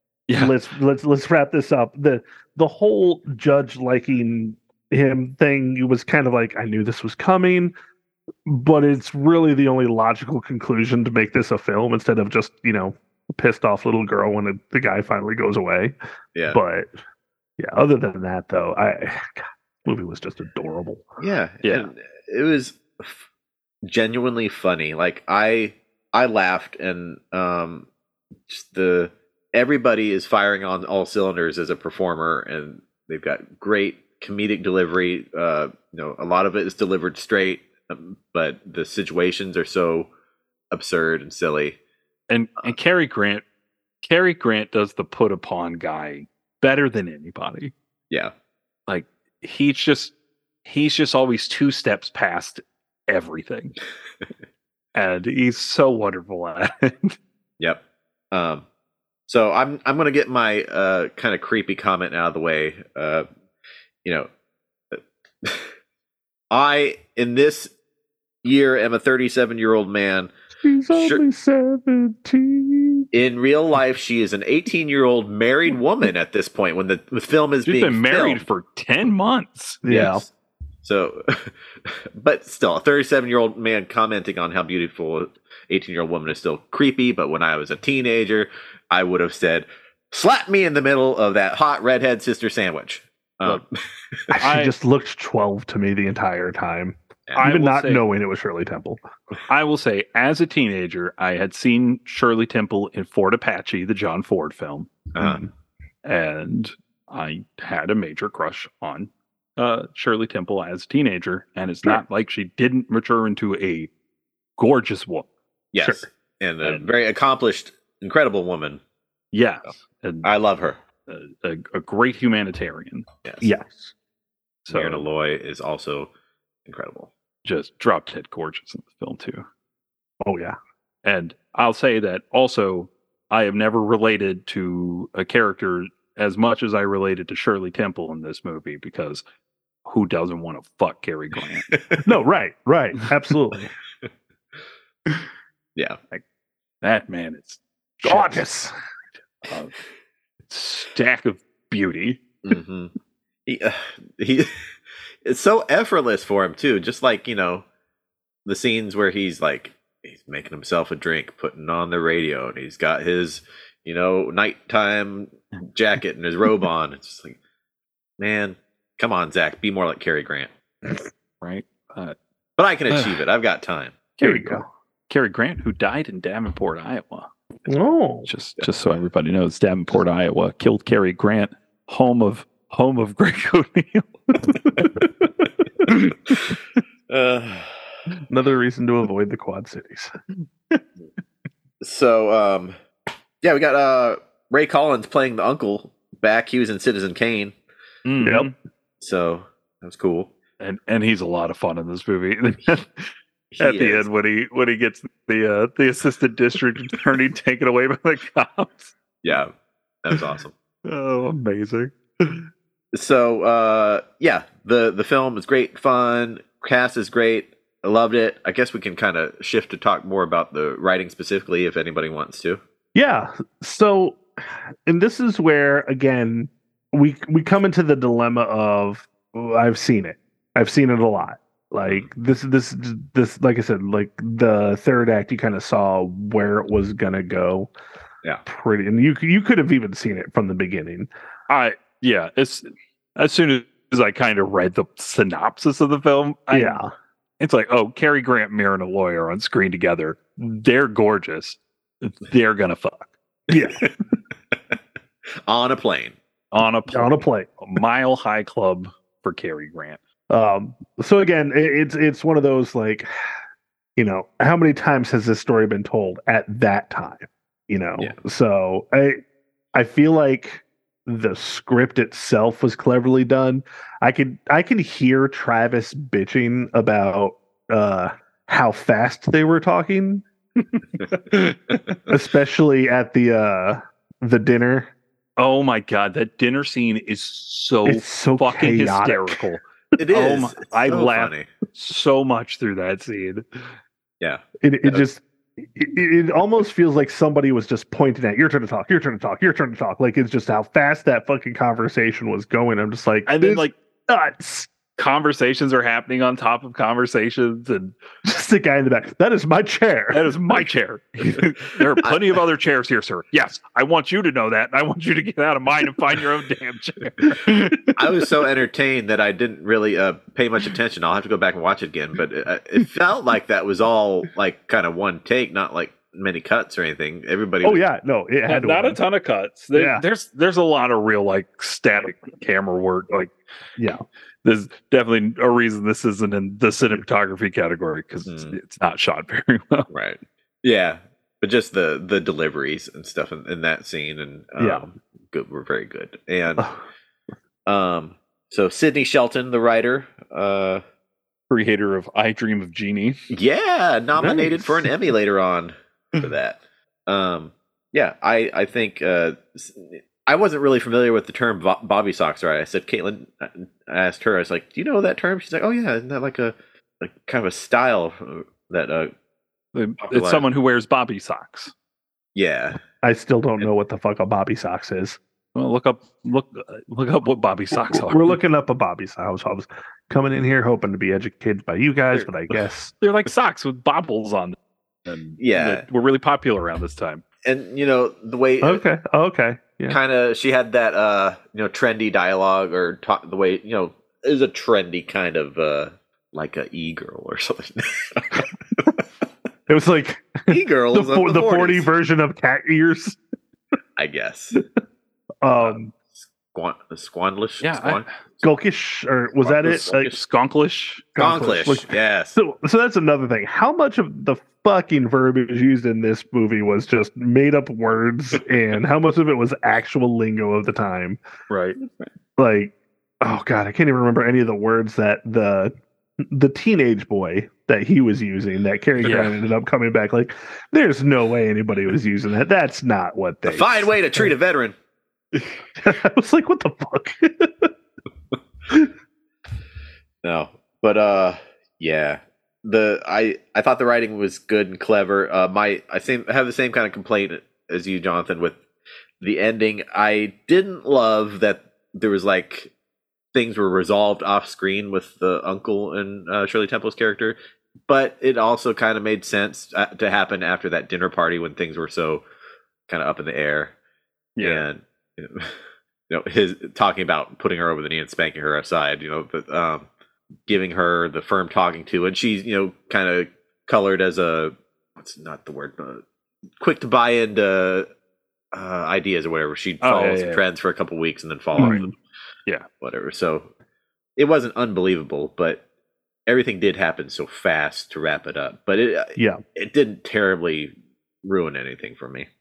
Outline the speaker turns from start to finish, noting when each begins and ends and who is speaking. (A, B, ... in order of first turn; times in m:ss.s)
0:00.3-0:00.6 A
0:00.4-0:07.7 B
0:08.5-0:16.0 B
0:16.4-0:16.6 C
0:16.5-0:16.9 B
0:17.6-0:21.1 B
0:21.2-0:23.3 C
0:21.6-0:21.9 A
0:23.8-0:27.9 C
0:28.5-0:40.1 C
0:40.7-0:41.8 C
0:42.3-0:43.4 A
0:44.0-0:47.7 A
0:48.9-0:53.8 A
0:55.0-0:57.2 A
0:57.6-0:58.6 C
0:59.3-1:03.3 C
1:04.9-1:05.7 C
1:06.5-1:07.7 C
1:08.4-1:10.3 C
1:10.6-1:13.1 B
1:10.9-1:11.2 C
1:13.1-1:18.4 C
1:17.6-1:19.9 A
1:19.8-1:20.2 B
1:19.9-1:20.3 C
1:20.8-1:34.4 C
1:34.3-1:39.0 B
1:34.4-1:34.7 A
1:37.4-1:38.0 A
1:39.5-1:44.9 A
1:45.1-1:45.4 C
1:45.2-1:45.5 B
1:46.0-1:53.9 A
1:54.6-1:55.3 A
1:55.7-1:58.8 C
1:56.6-1:56.9 A
1:59.3-2:00.3 A
2:00.2-2:00.8 C
2:01.1-2:03.1 A
2:03.2-2:03.5 C
2:03.4-2:03.9 B
2:04.6-2:05.0 A
2:04.7-2:06.1 C
2:06.7-2:07.1 C
2:07.4-2:09.5 A
2:10.2-2:10.6 B
2:11.0-2:19.2 A
2:19.9-2:21.7 A
2:21.7-2:22.0 C
2:22.1-2:23.7 B
2:26.8-2:28.5 A
2:28.0-2:28.7 B
2:29.4-2:29.7 A
2:30.5-2:32.2 A
2:32.4-2:32.9 C
2:33.5-2:34.5 C
2:35.2-2:37.6 C
2:38.5-2:47.4 C
2:48.2-2:50.5 C
2:51.4-2:52.2 A
2:52.6-2:54.0 C
2:52.9-2:53.2 A
2:54.2-2:57.3 A
2:54.2-2:54.6 B
2:57.7-2:58.3 B
2:58.2-3:04.1 A
3:05.0-3:05.3 B
3:05.9-3:06.4 A
3:07.1-3:07.9 C
3:08.3-3:10.1 B
3:11.8-3:12.8 C
3:13.4-3:17.6 C
3:18.0-3:18.5 A
3:18.2-3:18.5 B
3:19.0-3:20.3 C
3:20.6-3:29.0 A
3:23.5-3:24.1 C
3:29.2-3:29.5 C
3:30.0-3:30.5 C
3:30.8-3:32.5 A
3:32.9-3:42.6 C
3:43.0-3:57.7 B
3:58.5-4:01.1 B
4:01.5-4:06.8 A
4:06.5-4:06.9 B
4:07.4-4:13.1 A
4:13.5-4:13.8 B
4:15.5-4:16.2 C
4:16.5-4:20.0 A
4:16.9-4:17.5 B
4:20.3-4:23.1 B
4:24.0-4:29.2 B
4:29.7-4:40.2 B
4:41.0-4:42.0 A
4:42.1-4:44.9 B
4:45.4-4:53.7 A
4:47.9-4:49.4 B
4:50.0-4:51.5 C
4:54.2-4:55.0 C
4:54.6-5:04.7 B
5:03.3-5:03.8 A
5:05.0-5:08.0 A
5:08.2-5:10.4 B
5:10.1-5:17.9 A
5:18.0-5:27.8 C
5:27.6-5:29.0 B
5:28.5-5:33.4 A
5:29.7-5:30.0 B
5:33.8-5:34.0 B
5:34.4-5:39.9 A
5:38.3-5:38.6 C
5:39.9-5:46.7 C
5:47.7-5:50.8 C
5:51.5-5:53.2 A
5:53.3-6:09.1 C
5:54.2-5:54.9 B
6:09.7-6:11.7 A
6:10.1-6:10.4 C
6:12.4-6:12.8 C
6:13.0-6:15.2 B
6:15.6-6:18.4 A
6:17.8-6:22.9 B
6:23.0-6:27.2 A
6:25.4-6:25.9 C
6:27.4-6:28.8 C
6:28.6-6:30.0 B
6:29.9-6:38.9 C
6:39.7-6:43.2 B
6:40.5-6:41.9 C
6:44.0-6:44.6 C
6:45.4-6:45.9 B
6:45.6-6:48.5 C
6:47.6-6:48.1 A
6:48.4-6:50.1 B
6:49.4-6:50.2 C
6:49.8-6:51.1 A
6:51.2-7:01.2 B
6:51.2-6:52.4 C
7:01.5-7:01.8 A
7:02.4-7:14.3 B
7:09.0-7:09.4 A
7:13.5-7:14.8 C
7:15.8-7:17.7 B
7:20.2-7:28.6 C
7:29.2-7:32.7 C
7:33.3-7:42.2 C
7:42.9-7:43.7 C
7:44.4-7:44.7 A
7:44.4-7:45.6 C
7:46.1-7:49.9 C
7:50.5-7:56.0 C
7:56.6-7:57.9 C
7:58.5-8:01.9 C
7:59.8-8:00.4 A
8:01.6-8:01.9 B
8:01.6-8:01.9 A
8:02.8-8:03.5 C
8:04.2-8:05.6 C
8:06.3-8:12.3 C